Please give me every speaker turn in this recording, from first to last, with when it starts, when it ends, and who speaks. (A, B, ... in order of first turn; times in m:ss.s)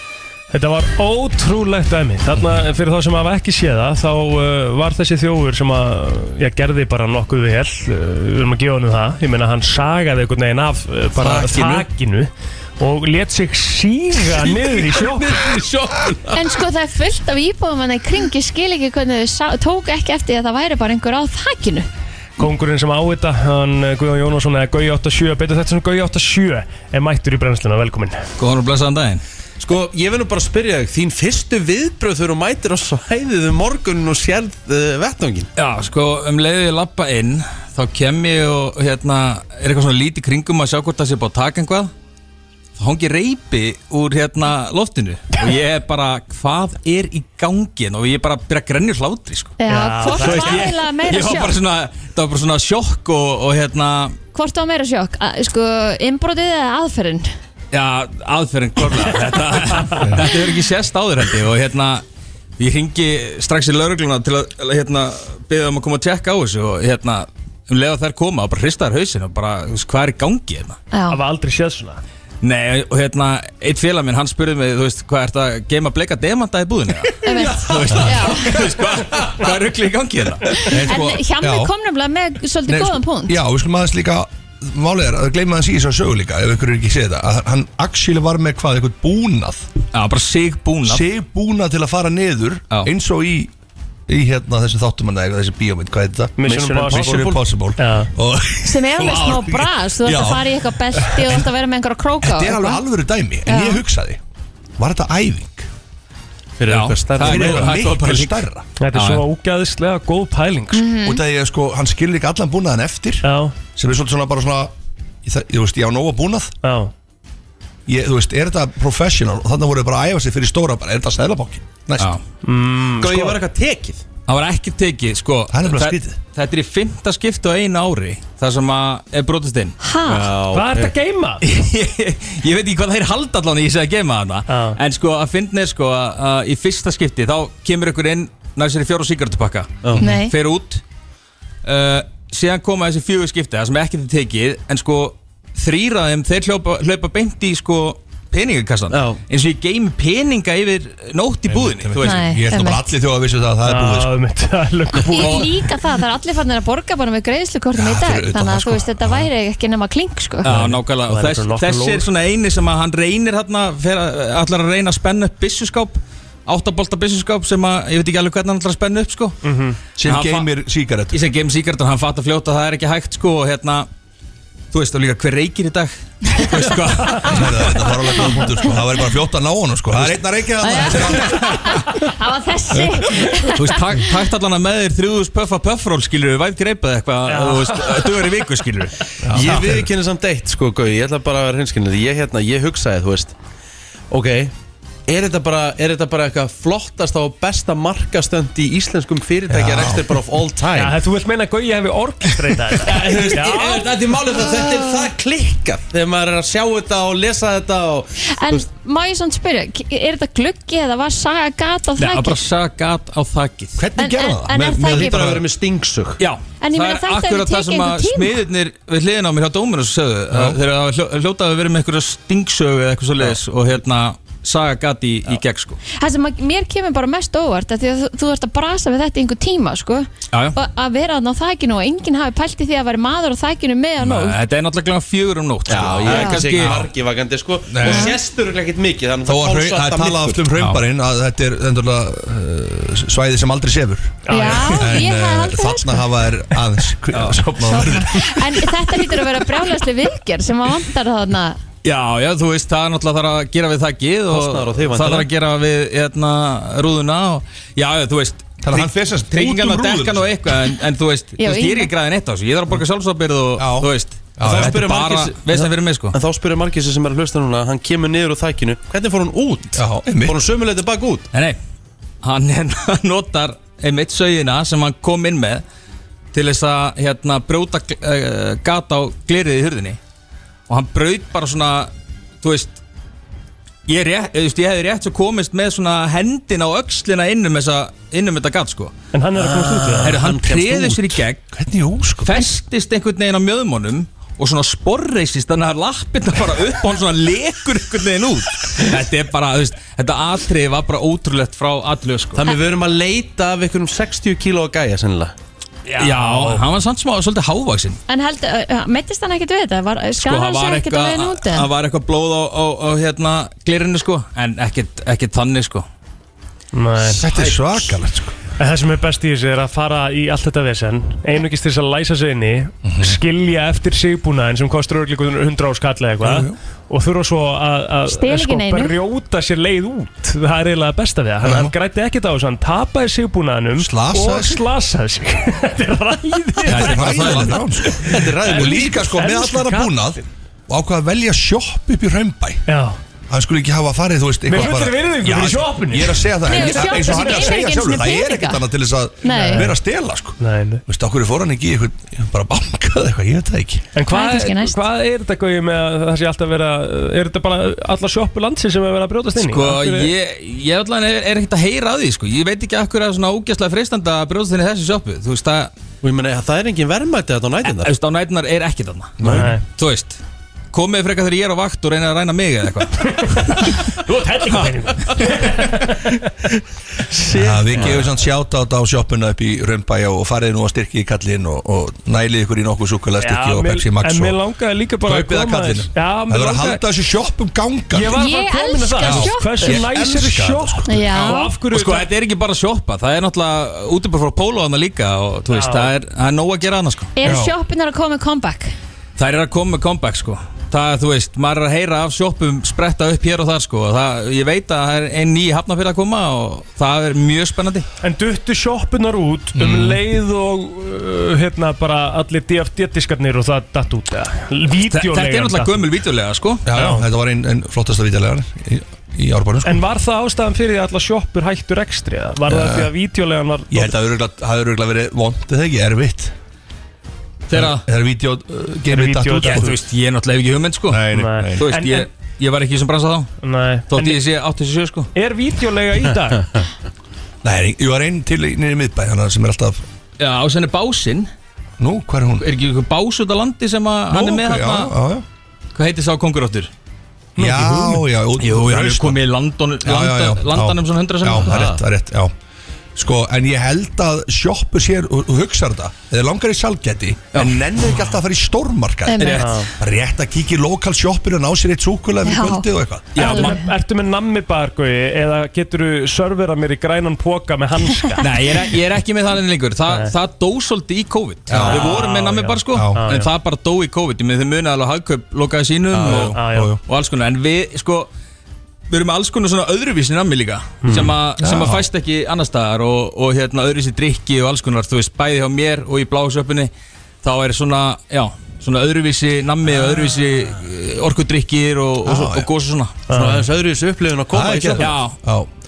0:00.5-0:15.5 A
0:11.2-0:11.9 B
0:14.2-0:16.4 B
0:16.3-0:21.9 C
0:22.4-0:28.2 A
0:28.4-0:29.2 D
0:29.6-0:35.5 B
0:35.6-0:41.9 D
0:42.8-0:54.2 D
0:49.6-0:51.5 C
0:49.7-0:50.7 A
0:54.3-0:57.3 C
0:57.7-1:02.0 D
1:02.6-1:10.8 D
1:10.9-1:11.2 C
1:11.1-1:12.0 A
1:12.4-1:20.7 D
1:17.2-1:18.6 C
1:20.5-1:23.4 C
1:20.7-1:21.7 E
1:22.7-1:29.6 E
1:29.9-1:31.0 D
1:30.8-1:33.5 E
1:34.1-1:41.5 E
1:36.4-1:38.1 A
1:36.4-1:37.4 B
1:38.6-1:42.8 C
1:42.2-1:44.2 E
1:43.5-1:43.8 C
1:44.8-1:45.7 E
1:46.6-1:47.8 B
1:46.7-1:49.2 D
1:47.2-1:48.6 E
1:48.8-1:50.8 A
1:50.7-1:51.2 C
1:51.0-1:54.7 E
1:53.2-1:53.6 A
1:55.2-1:56.5 E
1:56.6-1:56.9 A
1:57.9-2:02.2 E
2:02.4-2:03.4 A
2:03.0-2:04.0 B
2:04.3-2:09.7 D
2:05.5-2:06.2 E
2:09.8-2:10.3 C
2:10.0-2:10.9 B
2:10.5-2:11.4 A
2:11.4-2:20.8 D
2:14.5-2:14.8 A
2:20.0-2:20.3 C
2:21.6-2:32.3 D
2:28.9-2:29.2 B
2:31.5-2:34.2 E
2:32.0-2:32.8 C
2:33.6-2:35.6 A
2:35.0-2:40.5 C
2:35.1-2:35.5 D
2:37.7-2:39.3 E
2:40.4-2:49.4 D
2:40.5-2:42.0 A
2:49.4-2:49.8 A
2:50.0-2:51.2 E
2:50.0-2:50.5 D
2:51.1-2:53.9 D
2:54.7-2:57.8 D
2:57.2-3:01.8 E
3:00.6-3:03.8 C
3:02.8-3:03.3 E
3:03.5-3:08.9 D
3:07.2-3:08.1 A
3:09.3-3:09.9 E
3:09.3-3:13.3 B
3:14.1-3:14.5 B
3:15.1-3:21.0 B
3:19.5-3:20.1 E
3:20.7-3:23.9 A
3:22.8-3:28.6 B
3:28.2-3:32.4 C
3:32.0-3:33.8 D
3:33.8-3:35.4 E
3:34.0-3:35.3 C
3:34.8-3:36.2 B
3:36.2-3:45.8 D
3:36.6-3:38.4 C
3:40.3-3:40.6 E
3:45.9-3:54.4 C
3:50.3-3:50.6 D
3:54.0-3:56.9 D
3:55.6-3:56.8 E
3:55.7-4:00.6 B
3:56.1-3:56.4 C
3:57.7-3:58.2 E
3:57.8-3:58.1 C
3:59.2-4:08.6 E
4:04.2-4:04.8 A
4:04.3-4:06.0 C
4:07.1-4:07.5 D
4:07.6-4:11.6 C
4:11.8-4:26.1 D
4:14.3-4:15.3 B
4:18.6-4:20.4 E
4:21.4-4:21.9 C
4:23.6-4:25.0 E
4:24.4-4:31.3 B
4:29.8-4:30.4 E
4:31.3-4:31.6 D
4:32.2-4:35.6 D
4:36.3-4:40.0 D
4:40.7-4:41.9 D
4:42.4-4:42.8 D
4:43.8-4:48.9 D
4:49.1-4:50.2 A
4:49.4-4:51.2 B
4:50.0-4:51.5 D
4:51.5-4:52.5 E
4:52.2-5:02.5 D
5:02.4-5:05.3 B
5:05.9-5:08.0 D
5:05.9-5:06.6 A
5:08.1-5:11.7 C
5:10.2-5:15.8 D
5:16.7-5:17.2 A
5:17.0-5:18.3 E
5:17.3-5:17.9 B
5:18.6-5:40.2 A
5:22.8-5:23.2 E
5:26.2-5:26.6 E
5:28.1-5:29.0 C
5:31.4-5:31.7 E
5:33.8-5:34.6 E
5:36.7-5:37.6 D
5:36.7-5:42.6 E
5:38.0-5:39.2 B
5:42.7-5:43.0 A
5:43.3-5:53.8 E
5:44.5-5:47.6 A
5:46.4-5:48.6 C
5:49.2-5:49.7 C
5:49.2-5:49.8 A
5:50.4-5:50.8 A
5:53.9-6:00.1 A
5:54.1-5:54.8 C
5:59.4-6:05.7 D
6:06.0-6:07.9 B
6:07.7-6:10.2 D
6:09.2-6:09.5 E
6:09.2-6:09.5 B
6:09.3-6:09.6 A
6:10.7-6:13.8 D
6:13.6-6:16.2 A
6:14.5-6:15.3 D
6:17.1-6:18.1 B
6:17.3-6:24.4 E
6:23.2-6:26.8 A
6:25.0-6:28.3 E
6:27.9-6:32.1 A
6:28.1-6:29.9 C
6:29.0-6:31.1 E
6:30.9-6:31.5 C
6:31.6-6:37.2 D
6:35.5-6:35.9 A
6:37.2-6:38.7 C
6:37.2-6:37.5 E
6:39.2-6:47.8 D
6:48.0-6:55.9 A
6:49.5-6:50.0 E
6:54.8-6:56.6 D
6:56.6-6:59.8 E
6:56.7-6:57.0 A
6:59.6-7:03.9 A
7:02.5-7:02.9 E
7:03.7-7:06.3 E
7:07.5-7:07.9 D
7:07.5-7:09.7 E
7:08.9-7:09.8 A
7:09.4-7:11.0 D
7:10.9-7:11.7 E
7:11.1-7:12.1 A
7:11.6-7:13.3 D
7:13.4-7:14.2 A
7:13.9-7:15.1 D
7:15.1-7:16.6 A
7:17.4-7:19.8 E
7:20.2-7:21.3 D
7:21.8-7:22.5 E
7:22.4-7:24.9 D
7:24.1-7:25.2 E
7:25.7-7:26.7 D
7:27.4-7:28.1 A
7:27.4-7:29.2 E
7:28.4-7:31.7 D
7:29.8-7:32.3 E
7:31.4-7:31.8 B
7:33.0-7:43.2 E
7:39.1-7:39.4 C
7:39.2-7:39.4 D
7:39.4-7:39.7 A
7:42.2-7:43.7 C
7:43.2-7:43.6 D
7:43.2-7:48.4 A
7:48.2-7:58.1 D
7:49.9-7:50.1 A
7:51.5-7:52.0 E
7:51.5-7:53.3 A
7:52.7-7:53.0 E
7:55.9-7:56.8 E
7:56.1-7:56.7 A
7:58.9-8:06.7 D
8:00.8-8:01.1 A
8:00.9-8:01.9 E
8:07.2-8:12.9 D
8:12.0-8:12.5 E
8:13.1-8:13.5 A
8:13.1-8:14.9 B
8:14.3-8:15.5 E
8:14.8-8:15.2 D